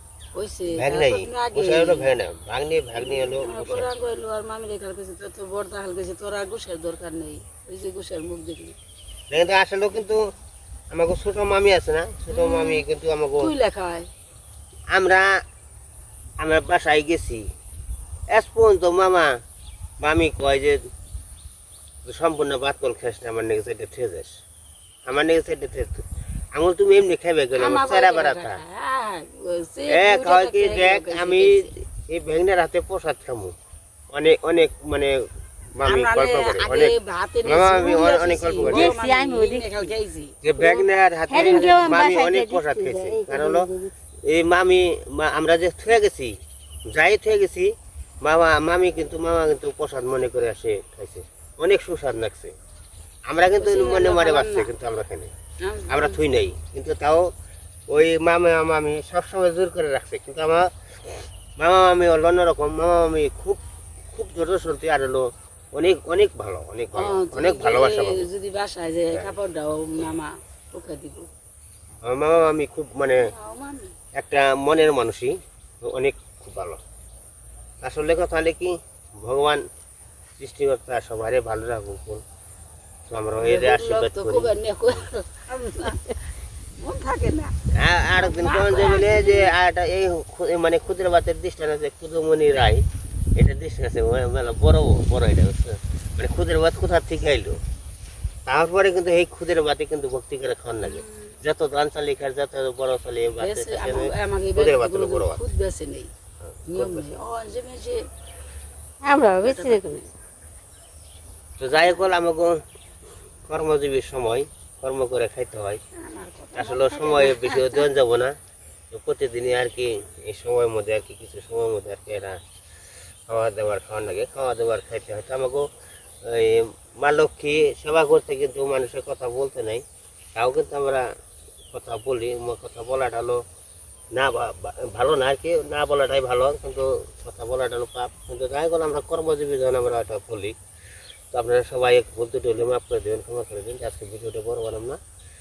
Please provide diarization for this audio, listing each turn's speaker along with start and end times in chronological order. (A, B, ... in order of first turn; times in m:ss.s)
0:00.3-0:02.1 A
0:00.7-0:03.9 B
0:03.0-0:08.8 A
0:09.3-0:10.3 B
0:10.9-0:13.5 B
0:12.3-0:12.9 A
0:13.4-0:14.1 A
0:14.9-0:15.4 B
0:16.4-0:17.5 B
0:18.3-0:19.4 B
0:20.0-0:20.9 B
0:22.0-0:24.4 B
0:25.0-0:28.6 B
0:27.5-0:31.7 A
0:29.9-0:33.5 B
0:34.1-0:39.0 B
0:35.8-0:40.3 A
0:38.6-0:39.8 C
0:40.4-0:43.7 B
0:40.6-0:43.9 C
0:41.3-0:42.1 A
0:44.2-0:52.6 B
0:53.3-0:55.3 B
0:53.6-0:54.7 A
0:55.6-0:56.2 A
0:55.9-0:57.3 B
0:57.9-1:08.3 B
1:06.9-1:11.3 A
1:12.0-1:13.3 B
1:13.1-1:13.9 A
1:14.1-1:16.8 B
1:17.8-1:19.6 B
1:20.4-1:22.2 B
1:23.1-1:24.5 B
1:23.4-1:26.2 A
1:26.8-1:27.5 A
1:27.7-1:32.8 B
1:28.1-1:29.5 A
1:33.4-1:37.6 B
1:38.4-1:45.4 B
1:40.8-1:41.4 A
1:43.4-1:46.1 A
1:46.4-1:47.1 B
1:46.7-1:48.1 A
1:49.0-1:50.0 C
1:49.4-1:50.1 A
1:51.6-1:52.6 B
1:53.4-1:55.8 B
1:55.9-1:57.9 A
1:56.5-1:58.4 B
1:58.9-2:02.4 B
2:03.3-2:05.7 B
2:06.2-2:09.8 B
2:10.4-2:11.1 B
2:11.7-2:13.4 B
2:14.1-2:20.6 B
2:21.3-2:25.0 B